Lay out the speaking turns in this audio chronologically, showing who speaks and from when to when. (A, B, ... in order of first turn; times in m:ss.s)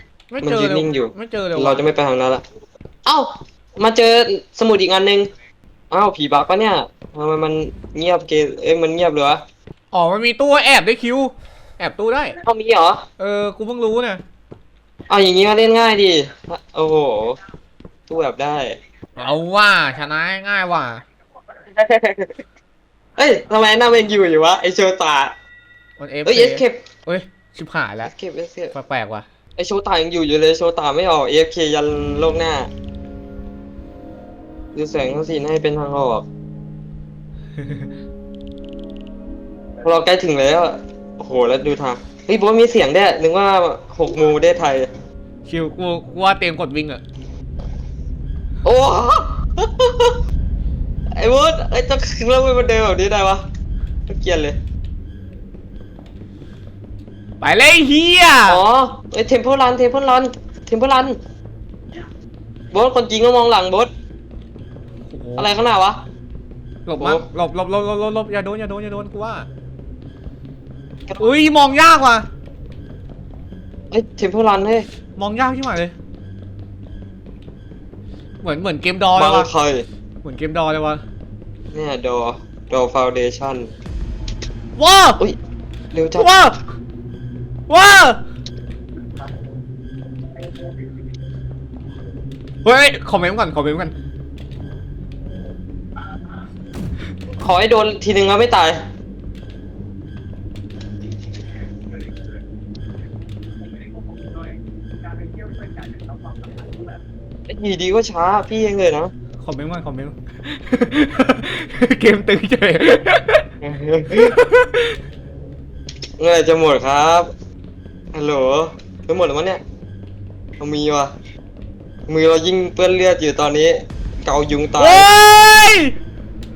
0:00.3-0:01.9 A
0:00.4-0:02.4 B
0:03.0-0:05.3 B
0:05.9-0:09.4 B
0:09.9-0:12.4 A
0:12.4-0:13.0 B
0:13.2-0:14.2 A
0:15.1-0:17.4 B
0:18.1-0:18.8 B
0:19.2-0:21.0 A
0:21.7-0:22.4 B
0:23.2-0:25.3 B
0:26.0-0:28.1 A
0:26.2-0:26.8 B
0:28.0-0:28.7 B
0:28.7-0:29.2 A
0:29.6-0:32.7 B
0:34.7-0:36.2 B
0:37.6-0:37.9 A
0:39.8-0:44.9 B
0:45.4-0:47.0 A
0:48.6-0:50.2 B
0:51.2-0:53.4 B
0:54.1-0:54.6 B
0:57.4-0:58.6 A
0:58.4-1:01.2 B
1:02.7-1:03.9 B
1:05.1-1:05.5 A
1:05.4-1:06.0 B
1:06.8-1:09.5 A
1:07.0-1:07.2 B
1:11.2-1:12.2 A
1:13.9-1:14.9 B
1:15.2-1:15.9 A
1:18.4-1:19.5 A
1:19.1-1:19.8 B
1:20.2-1:21.0 A
1:21.7-1:23.7 B
1:24.8-1:25.2 A
1:25.9-1:26.3 B
1:26.2-1:26.5 A
1:27.7-1:28.2 A
1:32.6-1:33.9 A
1:37.4-1:38.8 B
1:47.5-1:49.1 B
1:49.4-1:53.5 A
1:53.6-1:54.3 B
1:54.1-1:54.9 A
1:56.2-1:57.3 B
1:58.1-1:59.6 B
2:00.6-2:01.1 B
2:02.1-2:05.1 B
2:04.8-2:05.9 A